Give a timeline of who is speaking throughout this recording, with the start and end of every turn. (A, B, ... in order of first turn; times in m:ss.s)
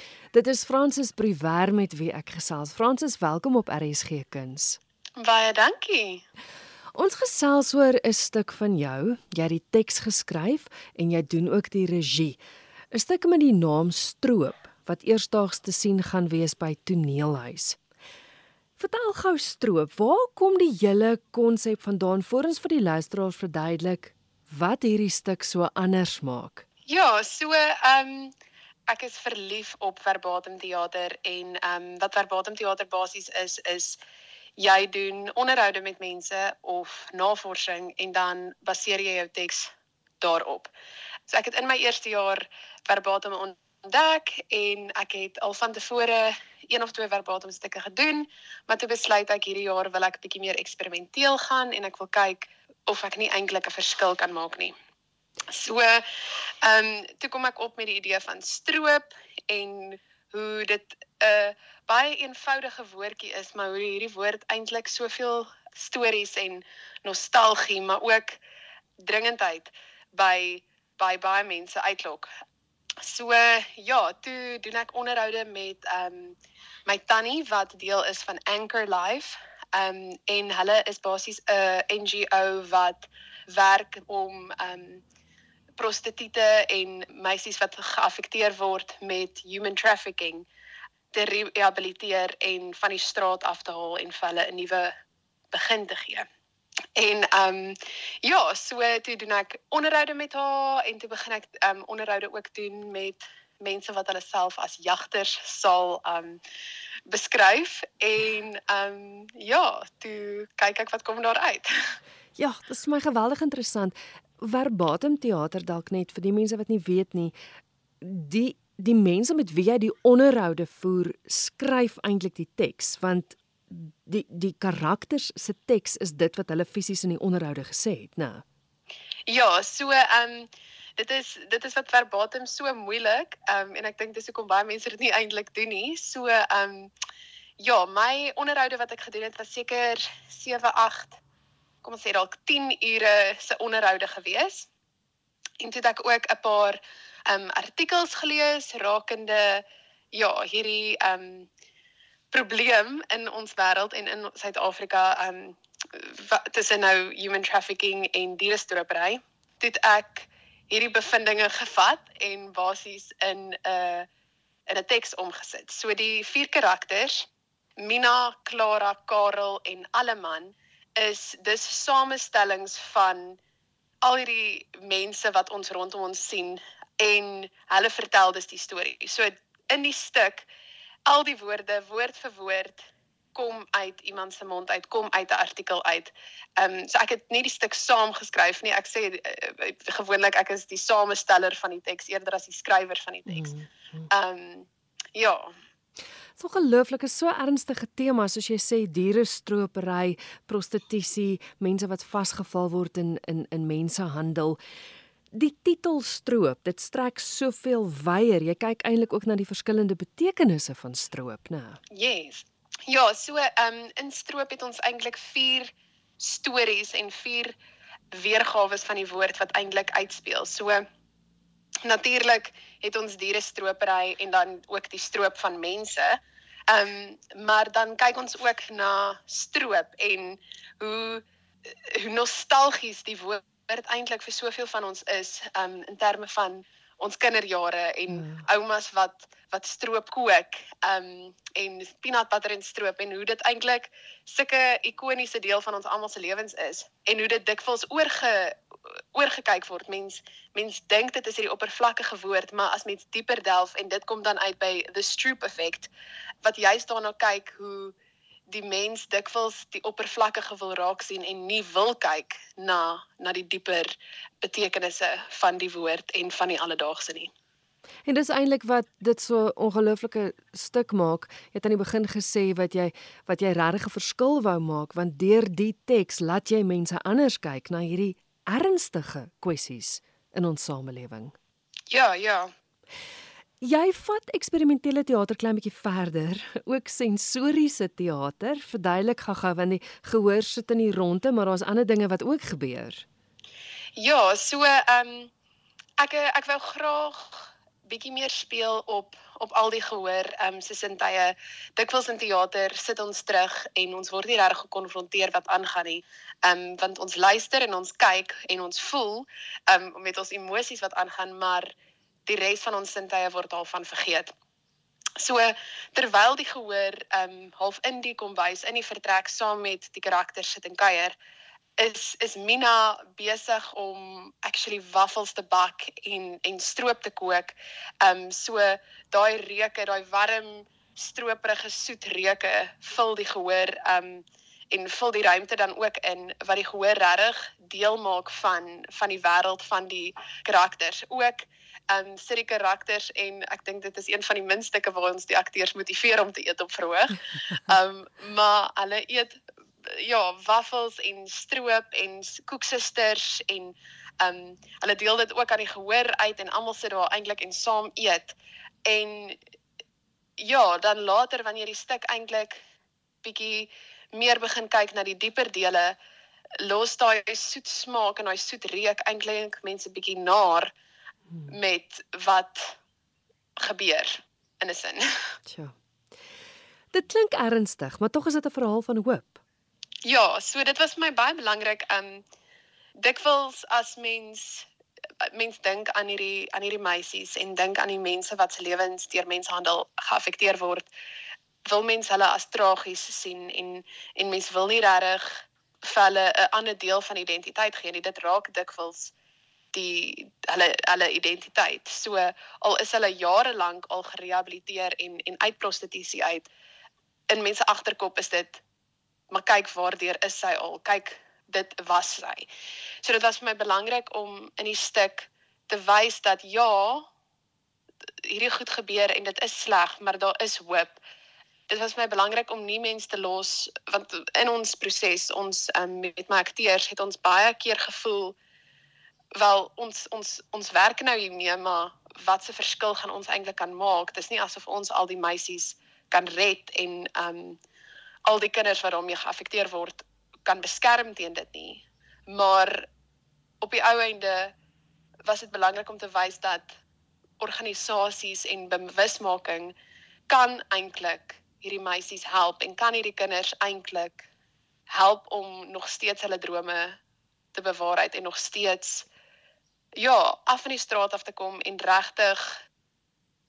0:00.3-0:04.8 A
0:05.2-0:06.2 B
0:07.0-0:12.4 A
0:12.9-0:17.8 A
0:18.8-0:26.6 A
0:26.9-0:28.3 B
0:28.9-0:34.0 B
0:34.6-0:39.7 B
0:40.2-0:40.7 B
0:41.3-0:54.7 B
0:55.5-0:56.0 B
0:56.6-1:08.4 B
1:09.0-1:12.3 B
1:13.0-1:25.0 B
1:25.8-1:30.5 B
1:31.1-1:34.9 B
1:35.5-1:36.3 B
1:37.0-1:46.4 B
1:47.1-1:51.7 B
1:52.4-1:57.3 A
1:58.0-2:08.4 A
2:09.3-2:16.9 B
2:17.6-2:21.2 B
2:21.8-2:24.7 B
2:25.6-2:31.5 B
2:32.3-2:44.1 B
2:44.7-2:47.3 B
2:47.8-2:53.4 B
2:54.0-3:00.5 B
3:01.1-3:13.5 B
3:13.3-3:14.1 A
3:14.1-3:15.5 B
3:16.4-3:24.6 A
3:25.3-3:31.8 A
3:31.9-3:37.6 B
3:38.1-3:40.8 B
3:41.8-4:08.6 B
3:58.1-3:58.4 A
4:09.2-4:15.9 B
4:16.4-4:18.0 B
4:18.5-4:27.3 B
4:28.1-4:41.4 A
4:41.9-4:42.5 B
4:43.6-4:53.0 A
4:54.0-4:55.3 B
4:56.0-5:11.7 B
5:12.3-5:14.3 B
5:15.2-5:21.2 B
5:21.8-5:59.4 B
6:00.4-6:02.6 B
6:03.2-6:06.0 B
6:06.6-6:10.7 B
6:11.5-6:12.8 B
6:13.6-6:15.0 B
6:15.5-6:15.8 A
6:16.9-6:19.4 A
6:20.0-6:22.2 B
6:23.0-6:24.7 B
6:25.2-6:30.9 B
6:31.7-6:39.1 B
6:39.7-6:46.5 B
6:47.3-6:48.6 B
6:49.3-6:52.5 B
6:53.0-6:57.1 B
6:58.2-7:01.0 B
7:01.7-7:08.4 B
7:09.4-7:17.6 B
7:18.3-7:22.9 B
7:23.6-7:24.5 B
7:25.2-7:26.8 B
7:27.4-7:29.8 B
7:30.3-7:34.3 B
7:34.9-7:37.0 B
7:37.5-7:39.1 B
7:40.0-7:42.5 B